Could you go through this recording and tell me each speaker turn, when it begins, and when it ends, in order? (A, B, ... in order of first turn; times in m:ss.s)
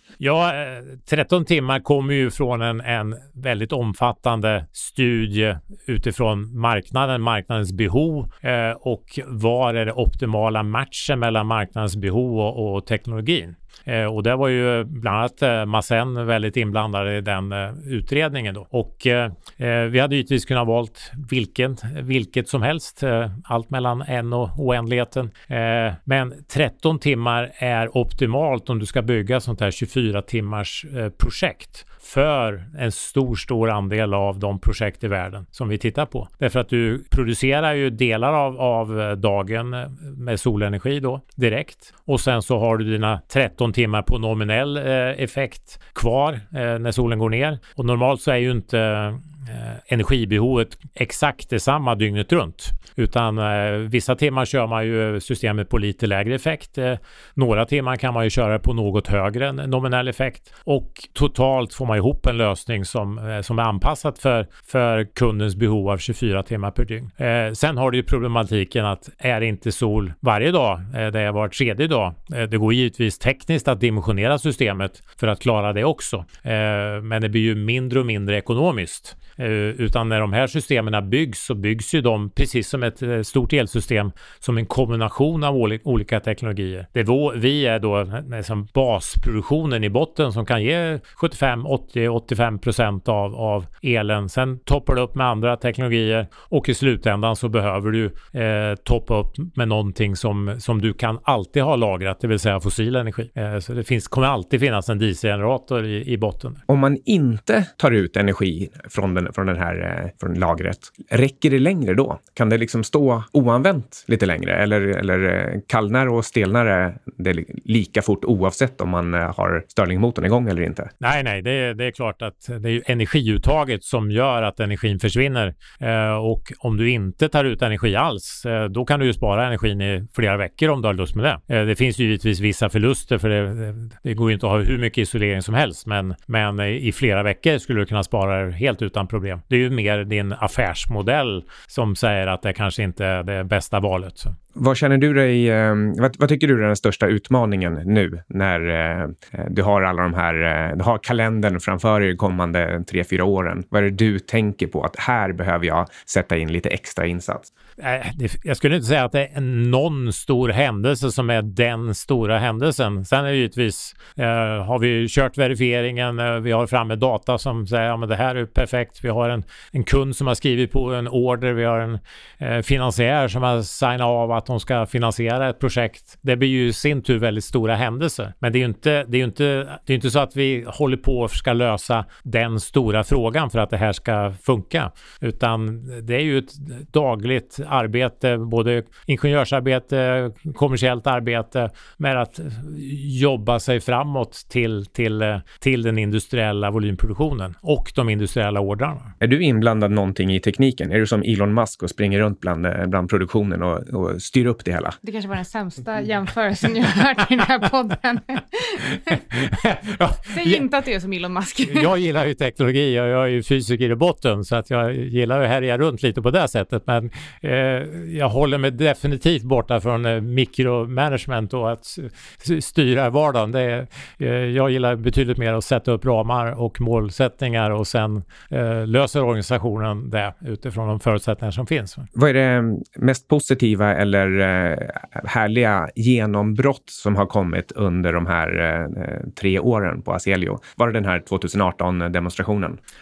0:00.2-1:46.6 A
1:46.7-2:00.9 B
2:01.0-2:24.4 A
2:24.6-2:37.5 B
2:37.8-3:19.1 A
3:19.2-3:25.0 B
3:25.0-3:29.2 C
3:29.3-3:30.6 A
3:30.3-3:31.9 C
3:31.7-3:52.1 A
3:52.1-4:02.8 B